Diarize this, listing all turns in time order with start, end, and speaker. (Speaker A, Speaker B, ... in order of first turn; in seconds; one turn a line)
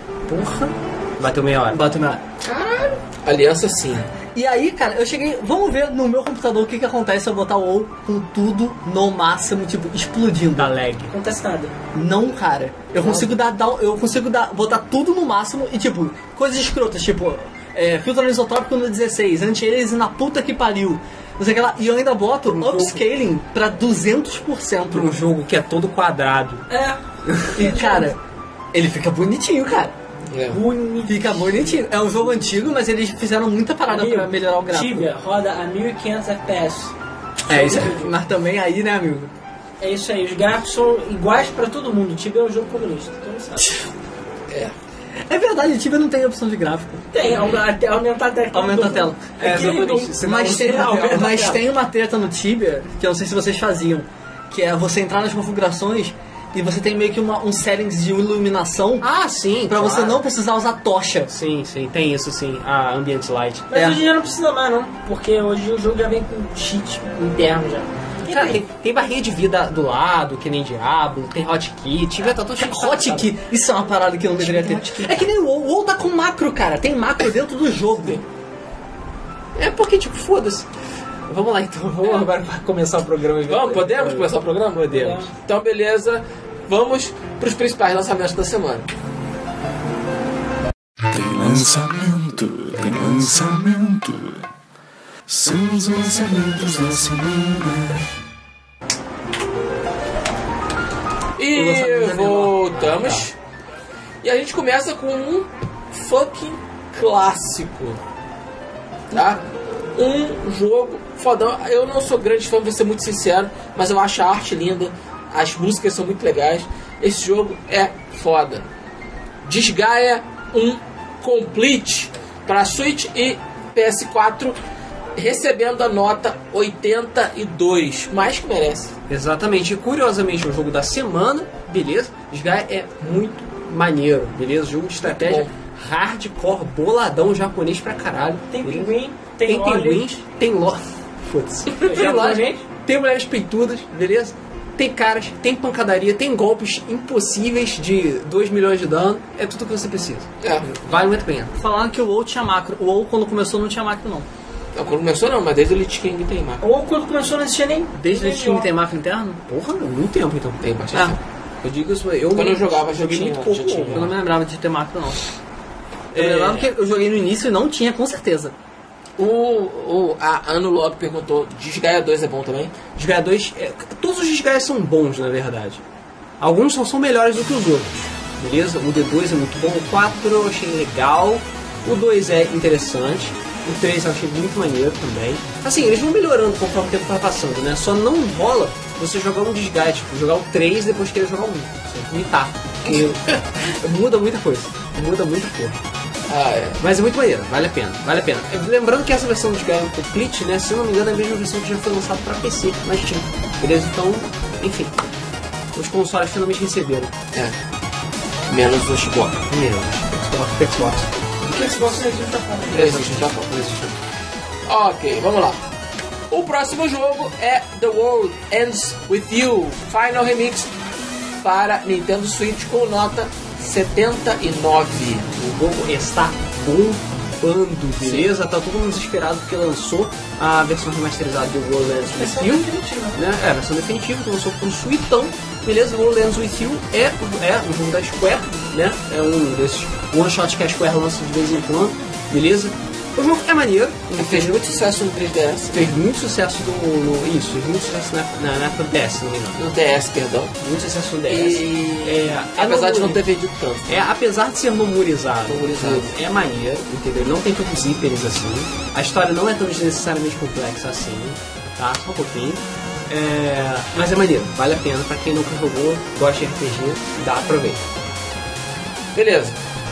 Speaker A: 0.3-1.8
Speaker B: 1.7-2.2
Speaker C: 2.4-3.0
Speaker D: 3.2-4.1
Speaker B: 4.3-10.7
Speaker A: 10.6-11.1
Speaker C: 11.1-11.7
Speaker B: 11.9-25.2
Speaker A: 13.0-13.3
Speaker A: 22.5-23.0
Speaker A: 24.9-26.6
Speaker C: 26.7-28.1
Speaker B: 27.5-28.2
Speaker B: 28.7-29.9
Speaker D: 30.3-30.6
Speaker C: 30.5-31.8
Speaker B: 31.0-35.1
Speaker C: 33.9-36.9
Speaker B: 37.5-39.3
Speaker C: 37.5-38.1
Speaker C: 39.8-43.8
Speaker D: 44.5-44.7
Speaker B: 45.3-47.1
Speaker C: 47.1-51.6
Speaker B: 48.5-49.4
Speaker A: 49.4-51.4
Speaker D: 49.4-50.0
Speaker B: 50.2-59.1
Speaker A: 59.0-60.2
Speaker B: 59.7-61.3
Speaker A: 61.3-63.7
Speaker C: 63.7-68.6
Speaker B: 63.7-64.0
Speaker A: 68.3-73.3
Speaker B: 72.5-78.2
Speaker A: 74.3-75.3
Speaker A: 79.5-80.7
Speaker A: 81.3-84.3
Speaker D: 83.5-88.9
Speaker C: 84.9-85.3
Speaker E: 91.1-94.4
Speaker E: 95.3-98.0
Speaker D: 101.4-103.3
Speaker B: 101.5-103.2
Speaker D: 104.2-108.0
Speaker D: 109.1-109.4
Speaker D: 109.9-118.6
Speaker D: 119.4-124.6
Speaker D: 125.2-128.9
Speaker A: 129.1-138.9
Speaker D: 135.0-135.5
Speaker C: 138.5-140.1
Speaker A: 139.4-151.5
Speaker C: 141.7-142.6
Speaker D: 150.4-150.8
Speaker B: 151.6-154.3
Speaker D: 154.7-156.6
Speaker C: 156.6-158.7
Speaker B: 157.9-159.4
Speaker A: 159.4-160.6
Speaker D: 160.6-161.2
Speaker A: 161.6-164.1
Speaker D: 162.3-164.1
Speaker B: 163.9-165.2
Speaker B: 166.1-168.5
Speaker A: 166.1-166.6
Speaker D: 169.2-172.8
Speaker A: 172.9-175.8
Speaker A: 176.4-195.8
Speaker D: 196.3-196.8
Speaker A: 196.8-204.9
Speaker A: 205.7-207.1
Speaker D: 208.5-209.4
Speaker A: 209.5-211.1
Speaker C: 211.5-212.8
Speaker D: 212.7-213.5
Speaker A: 212.7-213.9
Speaker D: 214.7-215.6
Speaker D: 216.3-220.7
Speaker D: 221.4-225.3
Speaker A: 225.3-244.9
Speaker D: 228.0-228.3
Speaker C: 232.1-233.2
Speaker D: 244.2-245.9
Speaker A: 245.7-249.6
Speaker D: 249.6-250.5
Speaker A: 250.6-253.2
Speaker D: 251.3-253.9
Speaker A: 253.9-267.8
Speaker D: 255.4-256.1
Speaker D: 269.1-269.6